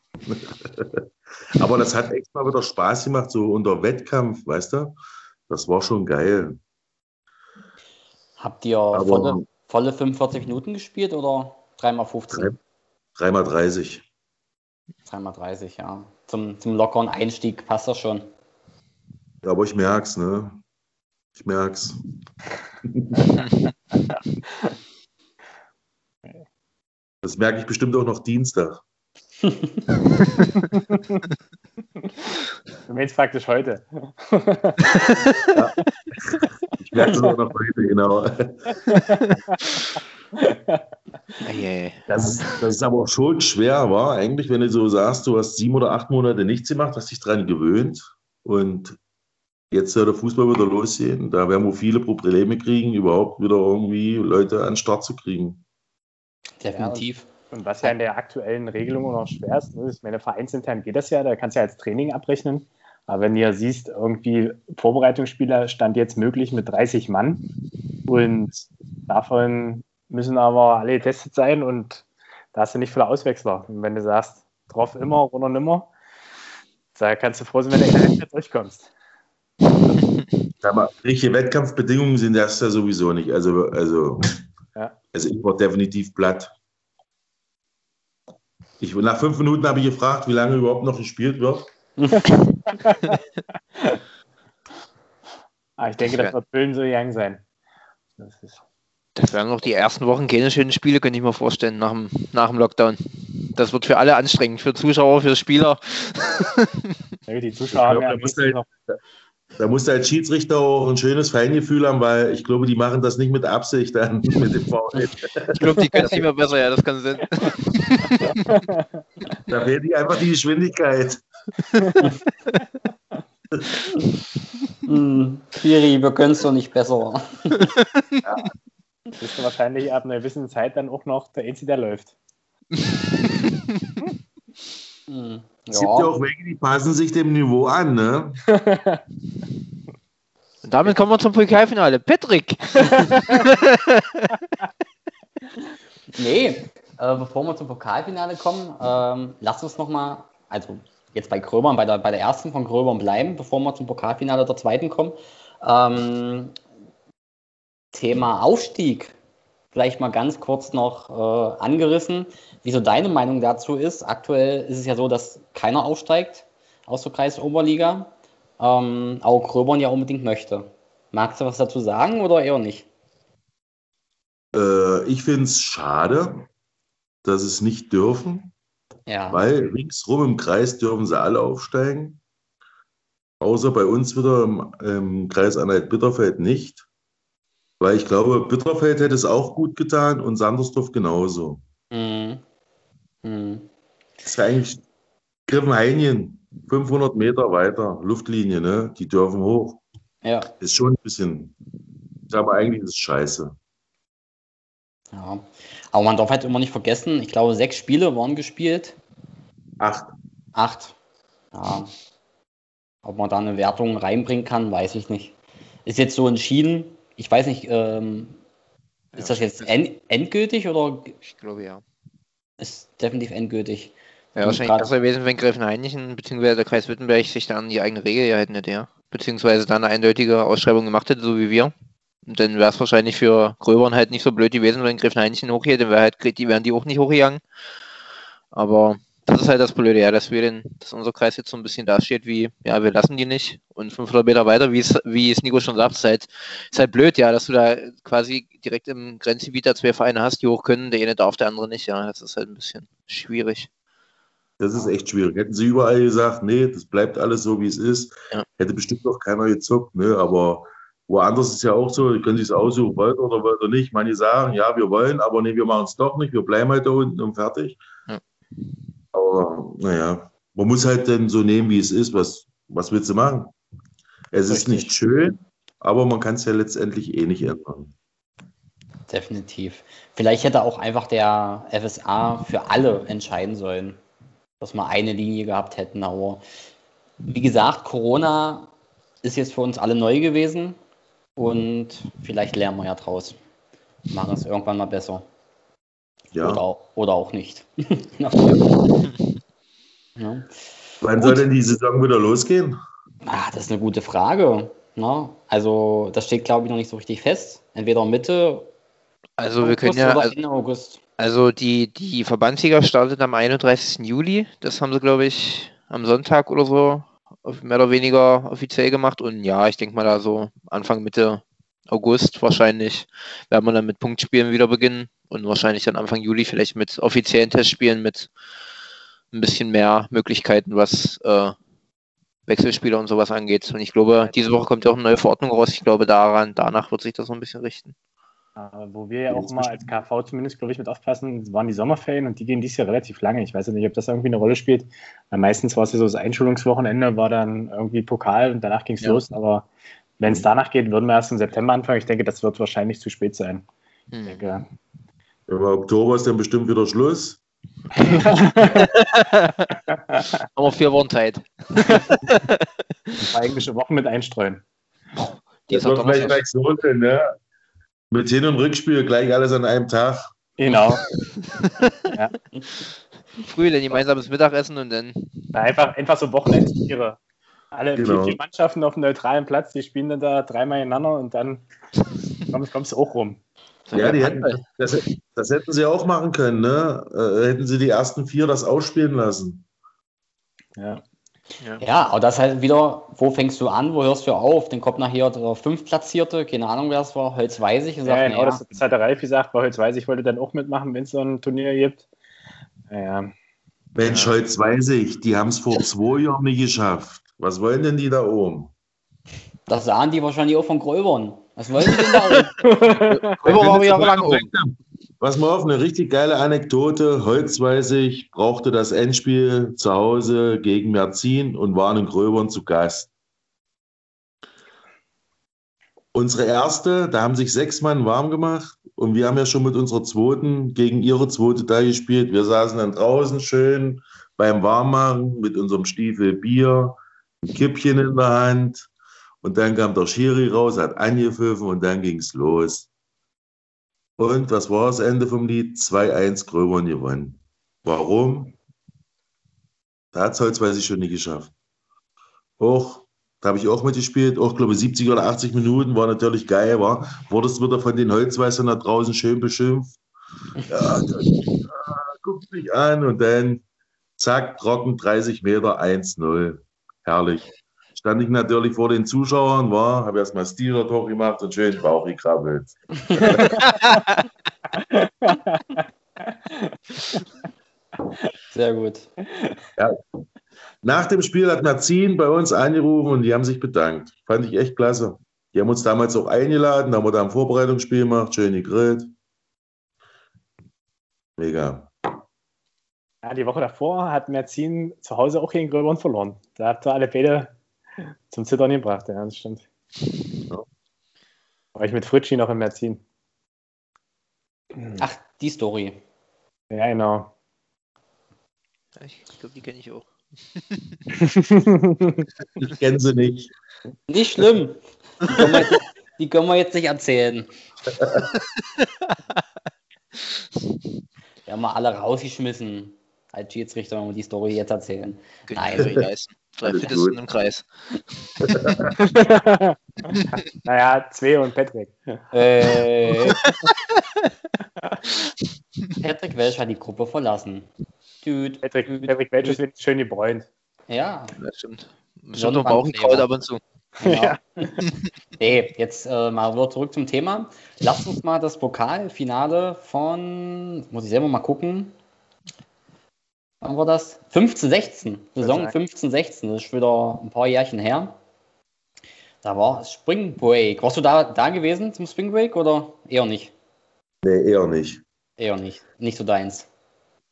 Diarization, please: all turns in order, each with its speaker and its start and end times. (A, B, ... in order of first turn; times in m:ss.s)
0:00.2-0:01.0 A
0:01.6-0:05.0 A
0:05.5-0:06.6 A
0:08.4-0:12.5 B
0:08.9-0:09.4 A
0:13.2-0:14.0 A
0:15.1-0:18.3 B
0:19.4-0:20.6 A
0:21.4-0:22.0 A
0:22.8-0:23.4 A
0:24.1-0:24.8 C
0:27.2-0:28.8 A
0:30.7-0:31.2 C
0:32.9-0:35.0 C
0:35.5-0:38.7 A
0:38.9-0:39.2 C
0:40.4-0:40.8 C
0:41.4-0:42.1 D
0:42.1-0:49.0 A
0:49.7-0:55.6 A
0:56.6-0:57.3 B
0:56.8-1:07.4 C
1:08.1-1:08.5 C
1:09.1-1:15.9 C
1:17.0-1:18.9 C
1:20.6-1:24.4 A
1:25.1-1:26.5 A
1:28.8-1:31.7 A
1:32.0-1:32.6 B
1:32.7-1:33.2 C
1:35.8-1:37.4 C
1:36.0-1:36.3 D
1:38.2-1:38.6 C
1:39.2-1:46.9 D
1:47.3-1:48.6 C
1:47.7-1:49.0 A
1:49.6-1:55.7 A
1:55.6-1:58.6 D
1:58.2-1:58.9 C
1:59.5-2:01.2 A
2:01.8-2:02.1 C
2:04.9-2:07.6 B
2:07.7-2:08.2 D
2:08.2-2:08.5 A
2:09.2-2:12.1 C
2:12.8-2:13.6 D
2:15.1-2:16.2 B
2:15.7-2:18.4 A
2:18.5-2:19.0 C
2:20.6-2:24.4 D
2:26.2-2:36.6 B
2:37.9-2:39.1 B
2:39.7-2:52.9 B
2:54.5-2:56.5 A
2:57.2-2:58.5 A
2:59.1-2:59.4 B
2:59.3-3:02.2 A
3:03.4-3:06.8 A
3:07.8-3:11.6 A
3:11.9-3:12.4 B
3:13.2-3:13.7 B
3:14.2-3:14.8 A
3:15.5-3:19.8 A
3:20.2-3:20.5 B
3:20.6-3:21.5 A
3:22.3-3:23.6 A
3:25.1-3:29.0 B
3:29.8-3:30.1 A
3:30.5-3:31.0 B
3:31.5-3:31.9 B
3:33.0-3:35.4 B
3:35.9-3:38.4 B
3:39.1-3:39.7 D
3:39.2-3:41.2 B
3:41.2-3:41.8 D
3:42.6-3:44.9 B
3:44.4-3:51.7 D
3:52.3-3:57.4 D
3:58.5-4:13.7 D
4:14.6-4:27.8 A
4:29.1-4:33.5 A
4:34.3-4:37.9 A
4:39.1-4:44.0 B
4:44.6-4:46.4 B
4:47.3-4:48.7 B
4:49.2-4:50.8 B
4:51.4-4:53.4 B
4:54.1-4:55.3 B
4:56.3-4:56.6 A
4:56.4-4:58.9 B
5:00.2-5:00.5 B
5:01.0-5:02.8 A
5:01.2-5:01.4 B
5:03.2-5:08.7 B
5:09.4-5:10.4 D
5:09.6-5:11.0 B
5:11.2-5:28.3 D
5:29.3-5:31.6 D
5:32.5-5:38.0 D
5:38.6-5:49.7 C
5:39.3-5:39.8 A
5:50.2-5:53.7 C
5:54.1-5:54.5 D
5:54.3-5:54.6 C
5:55.5-5:57.4 A
5:57.9-5:58.9 C
5:58.6-5:59.8 D
5:59.9-6:00.3 C
6:00.6-6:03.2 D
6:01.8-6:02.2 C
6:03.2-6:04.6 C
6:05.2-6:06.4 D
6:05.7-6:07.3 A
6:08.1-6:10.3 A
6:10.6-6:11.0 C
6:10.7-6:12.2 D
6:13.4-6:15.5 D
6:15.5-6:17.2 C
6:17.7-6:21.6 C
6:18.0-6:18.4 A
6:22.5-6:23.4 C
6:23.9-6:24.6 D
6:23.9-6:29.6 A
6:30.8-6:31.0 C
6:31.8-6:38.6 B
6:38.0-6:42.0 C
6:42.9-6:43.3 C
6:44.0-6:48.7 A
6:44.0-6:44.3 D
6:49.7-6:52.5 B
6:52.6-6:53.4 C
6:53.0-6:54.5 D
6:53.4-7:03.1 A
7:06.1-7:18.9 A
7:19.4-7:22.9 A
7:24.2-7:28.6 A
7:30.1-7:31.5 A
7:32.6-7:40.0 A
7:40.7-7:43.6 A
7:44.2-7:53.6 A
7:53.4-7:53.6 C
7:54.8-7:55.8 C
7:58.5-7:59.1 B
8:00.8-8:09.1 A
8:11.4-8:11.9 A
8:13.2-8:17.6 C
8:18.3-8:19.7 C
8:21.8-8:23.0 C
8:25.0-8:26.0 B
8:26.7-8:27.3 C
8:29.0-8:31.0 D
8:31.2-8:32.3 C
8:32.6-8:33.5 A
8:34.1-8:37.5 B
8:38.0-8:38.3 A
8:41.5-8:46.0 B
8:45.5-8:47.7 D
8:46.6-8:47.2 A
8:48.4-8:49.0 A
8:49.0-8:49.8 C
8:50.6-8:52.2 C
8:52.3-8:53.4 B
8:56.0-8:57.7 B
8:58.2-8:59.6 B
8:58.6-9:00.5 C
9:00.9-9:01.3 B
9:01.4-9:03.6 D
9:02.4-9:03.3 B
9:04.0-9:04.7 B
9:04.0-9:04.4 C
9:05.4-9:11.9 B
9:13.6-9:18.2 B
9:15.4-9:15.8 C
9:19.4-9:23.5 B
9:24.2-9:25.0 A
9:25.4-9:26.7 B